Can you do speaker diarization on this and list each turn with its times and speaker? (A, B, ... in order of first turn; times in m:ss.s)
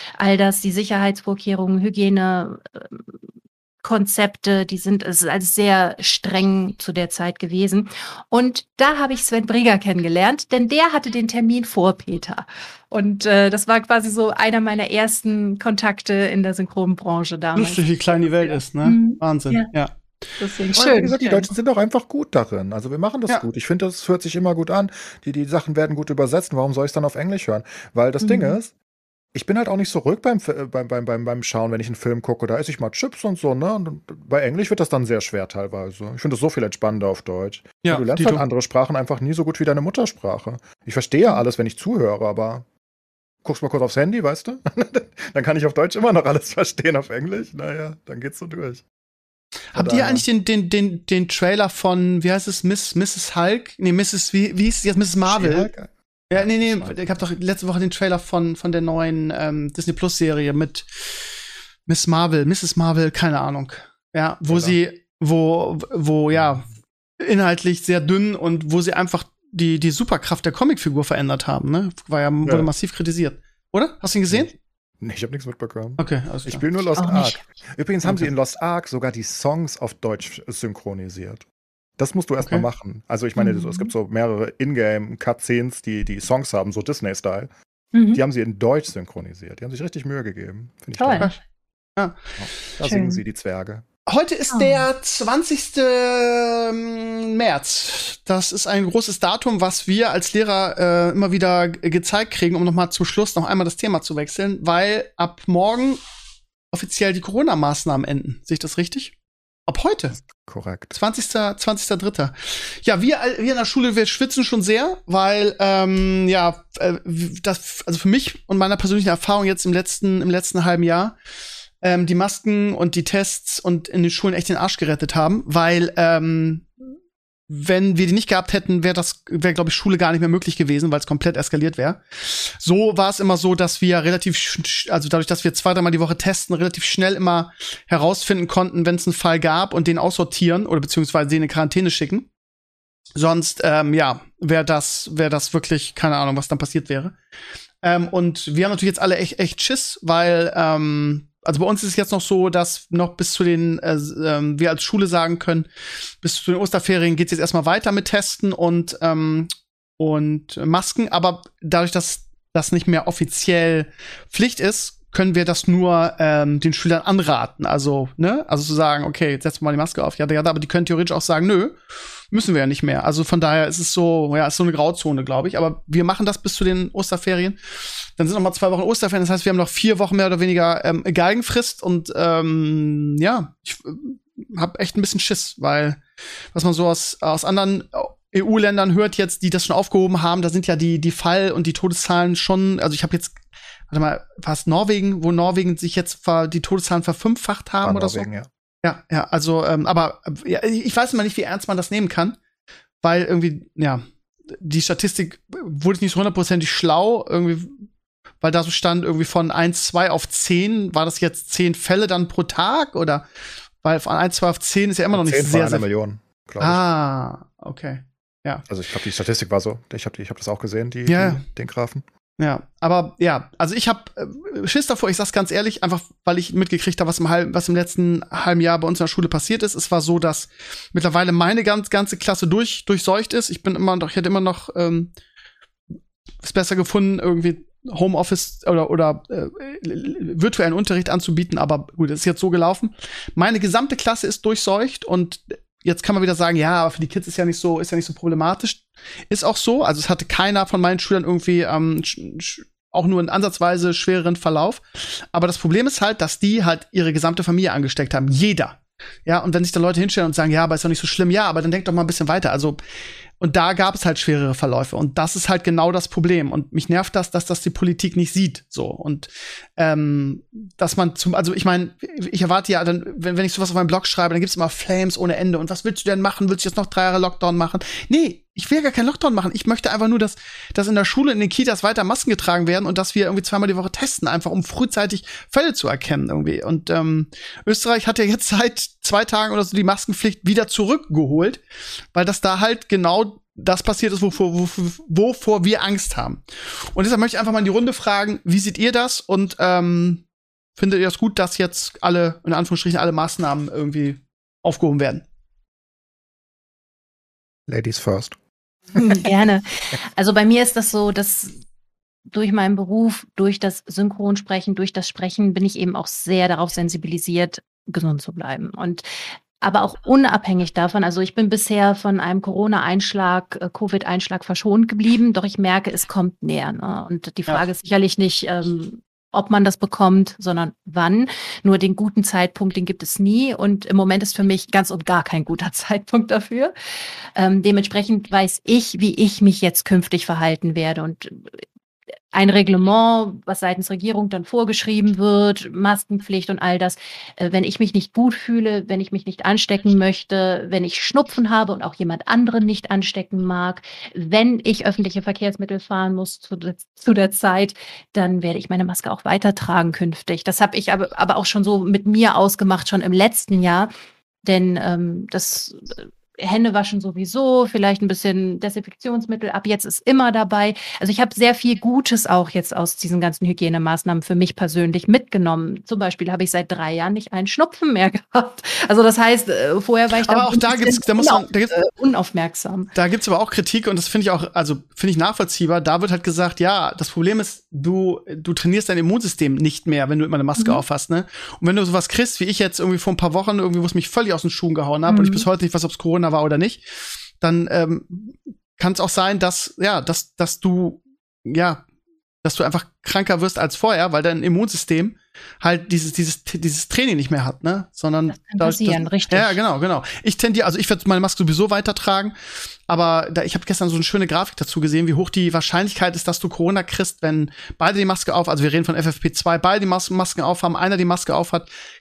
0:00.2-0:03.0 A
0:03.8-0:19.7 A
0:17.6-0:20.0 B
0:20.4-0:21.5 A
0:20.7-0:28.7 C
0:28.2-0:28.6 A
0:29.3-0:42.6 C
0:37.8-0:38.4 B
0:43.4-0:48.8 C
0:49.7-0:55.7 B
0:49.7-0:50.2 C
0:55.2-0:57.2 C
0:56.3-1:01.2 B
1:01.9-1:06.7 B
1:04.5-1:04.8 C
1:07.2-1:14.5 B
1:12.4-1:12.7 C
1:14.3-1:21.4 C
1:16.0-1:16.6 B
1:17.0-1:17.4 A
1:18.0-1:18.3 B
1:22.0-1:27.5 C
1:22.4-1:22.6 B
1:23.4-1:23.9 A
1:27.9-1:28.2 A
1:28.1-1:31.4 C
1:31.0-1:31.3 A
1:32.4-1:33.8 C
1:32.8-1:33.2 A
1:34.0-1:46.0 B
1:34.5-1:34.8 A
1:46.7-1:49.1 B
1:49.7-1:50.2 B
1:50.2-1:50.9 C
1:50.9-2:01.2 B
2:01.8-2:06.7 B
2:07.5-2:22.3 B
2:23.1-2:27.2 B
2:27.8-2:35.7 B
2:36.2-2:51.8 B
2:52.3-3:18.3 B
3:17.8-3:18.5 C
3:18.8-3:22.4 B
3:23.0-3:27.7 B
3:28.4-3:33.3 B
3:33.8-3:35.8 B
3:35.1-3:36.8 C
3:36.6-3:38.6 B
3:38.7-3:42.0 C
3:41.1-3:41.4 B
3:42.4-3:55.1 B
3:56.4-4:22.8 B
4:23.4-4:51.6 B
4:52.1-5:00.2 B
5:00.8-5:05.2 B
5:07.7-5:08.4 C
5:08.9-5:09.2 C
5:08.9-5:11.6 A
5:12.3-5:19.0 A
5:19.6-5:36.7 A
5:37.4-5:41.6 A
5:42.3-6:03.9 A
6:04.4-6:22.9 A
6:20.2-6:21.8 B
6:22.9-6:36.8 B
6:30.6-6:30.8 A
6:35.1-6:35.5 A
6:37.4-6:41.8 B
6:42.4-6:52.3 B
6:48.3-6:49.6 A
6:52.9-7:01.7 B